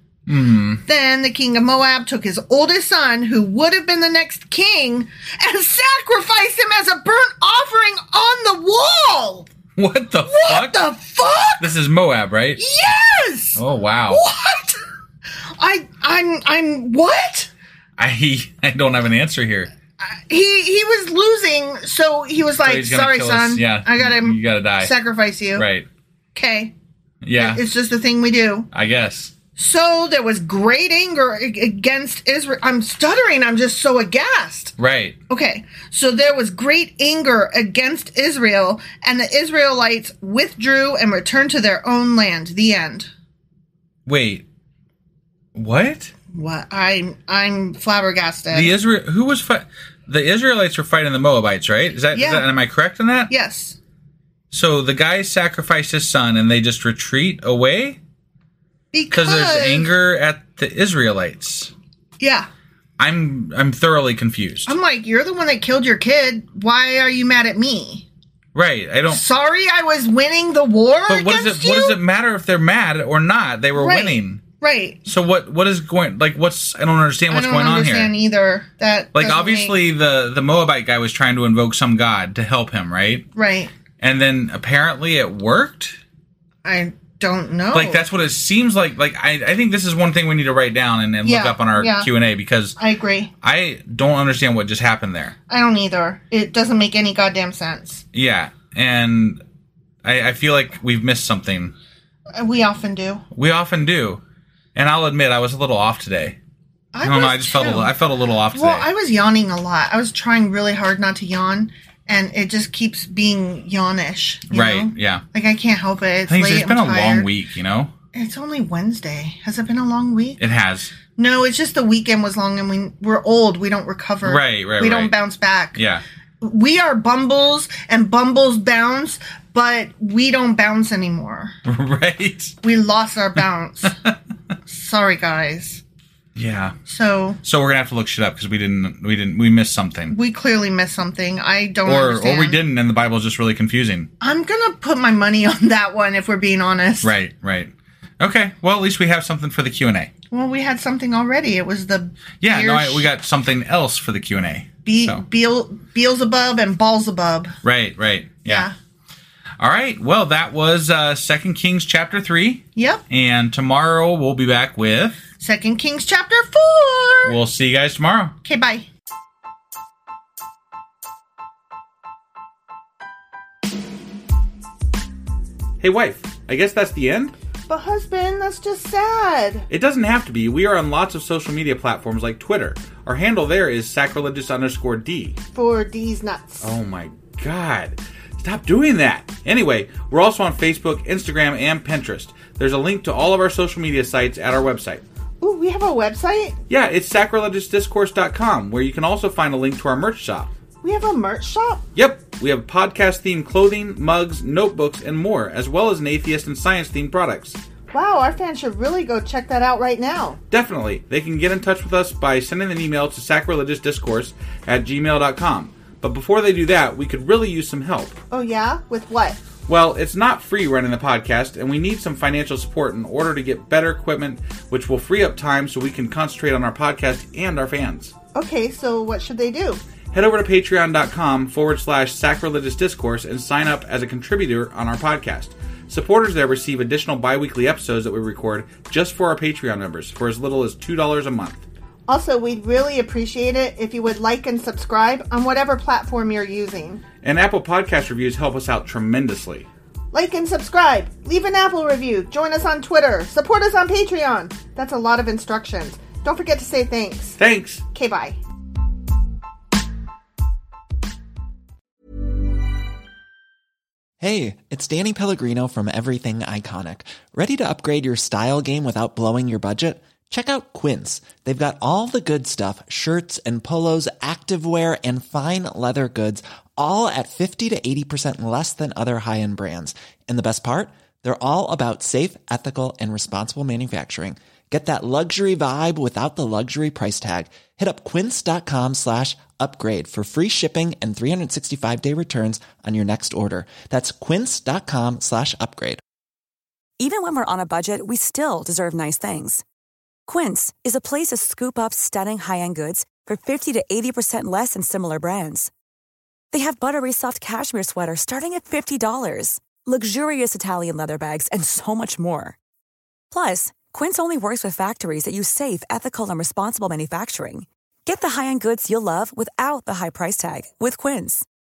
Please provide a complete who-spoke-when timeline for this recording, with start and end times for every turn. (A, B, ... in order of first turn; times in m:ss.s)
0:00.3-0:00.8 A
0:00.9-0:09.5 B
0:09.8-0:10.9 A
0:10.3-0:11.7 B
0:11.6-0:12.6 A
0:12.6-0:14.8 B
0:13.6-0:14.2 A
0:15.6-0:17.5 B
0:18.0-0:19.7 A
0:20.0-0:25.7 B
0:22.6-0:25.0 A
0:25.6-0:25.9 A
0:26.4-0:26.7 B
0:27.2-0:27.6 A
0:27.4-0:28.7 B
0:28.7-0:29.3 A
0:29.6-0:34.7 B
0:34.8-0:35.2 A
0:35.3-0:43.1 B
0:44.1-0:44.4 A
0:45.6-0:46.1 A
0:46.3-0:48.8 B
0:48.5-0:53.3 A
0:52.1-0:52.5 B
0:53.3-0:53.8 B
0:54.5-0:58.0 A
0:58.9-0:59.9 B
0:59.1-1:01.7 A
1:02.2-1:02.5 B
1:03.0-1:04.8 A
1:04.7-1:08.1 B
1:08.6-1:09.2 A
1:09.1-1:12.0 B
1:11.1-1:14.4 A
1:13.8-1:15.0 B
1:15.1-1:18.1 A
1:17.3-1:19.8 B
1:19.1-1:23.3 A
1:23.4-1:23.7 B
1:24.0-1:26.0 A
1:26.6-1:28.0 B
1:27.7-1:32.8 A
1:31.2-1:32.1 B
1:32.8-1:33.3 B
1:33.4-1:35.4 A
1:35.5-1:38.0 B
1:38.1-1:39.4 A
1:40.0-1:41.7 A
1:42.4-1:43.2 B
1:43.3-1:44.2 A
1:44.8-1:46.4 A
1:46.9-1:47.9 B
1:47.0-1:48.9 A
1:48.5-1:57.3 B
1:54.5-1:55.2 A
1:56.3-1:57.9 A
1:58.1-2:00.4 B
2:00.4-2:00.9 A
2:01.2-2:05.8 B
2:04.2-2:05.2 A
2:05.8-2:06.0 A
2:06.4-2:11.5 B
2:11.6-2:12.6 A
2:12.6-2:13.9 B
2:13.9-2:14.1 A
2:14.7-2:15.8 B
2:16.4-2:16.8 A
2:16.9-2:17.4 B
2:17.4-2:20.2 A
2:20.1-2:22.6 B
2:21.9-2:24.1 A
2:24.2-2:27.1 B
2:27.0-2:30.1 A
2:30.3-2:33.1 B
2:32.4-2:35.2 A
2:34.8-2:37.5 B
2:37.6-2:38.7 A
2:38.5-2:38.7 B
2:39.6-2:45.2 A
2:42.8-2:43.0 B
2:45.4-2:47.4 B
2:47.3-2:48.4 A
2:48.4-2:48.9 B
2:55.8-2:57.3 A
2:57.7-2:59.7 B
2:59.7-3:05.4 A
3:05.6-3:06.7 B
3:06.6-3:15.0 A
3:15.4-3:16.6 B
3:16.7-3:20.5 A
3:20.8-3:21.8 B
3:22.0-3:27.6 A
3:27.9-3:30.4 B
3:30.5-3:38.2 A
3:38.3-3:39.4 B
3:39.7-3:48.1 A
3:48.4-3:49.8 B
3:50.1-4:01.6 A
4:02.1-4:07.0 B
4:07.2-4:09.7 A
4:10.1-4:17.4 B
4:17.4-4:17.8 A
4:17.9-4:18.4 B
4:24.2-4:56.0 C
4:57.0-4:59.6 D
5:00.3-5:05.7 D
5:06.5-5:12.6 D
5:13.3-5:21.4 D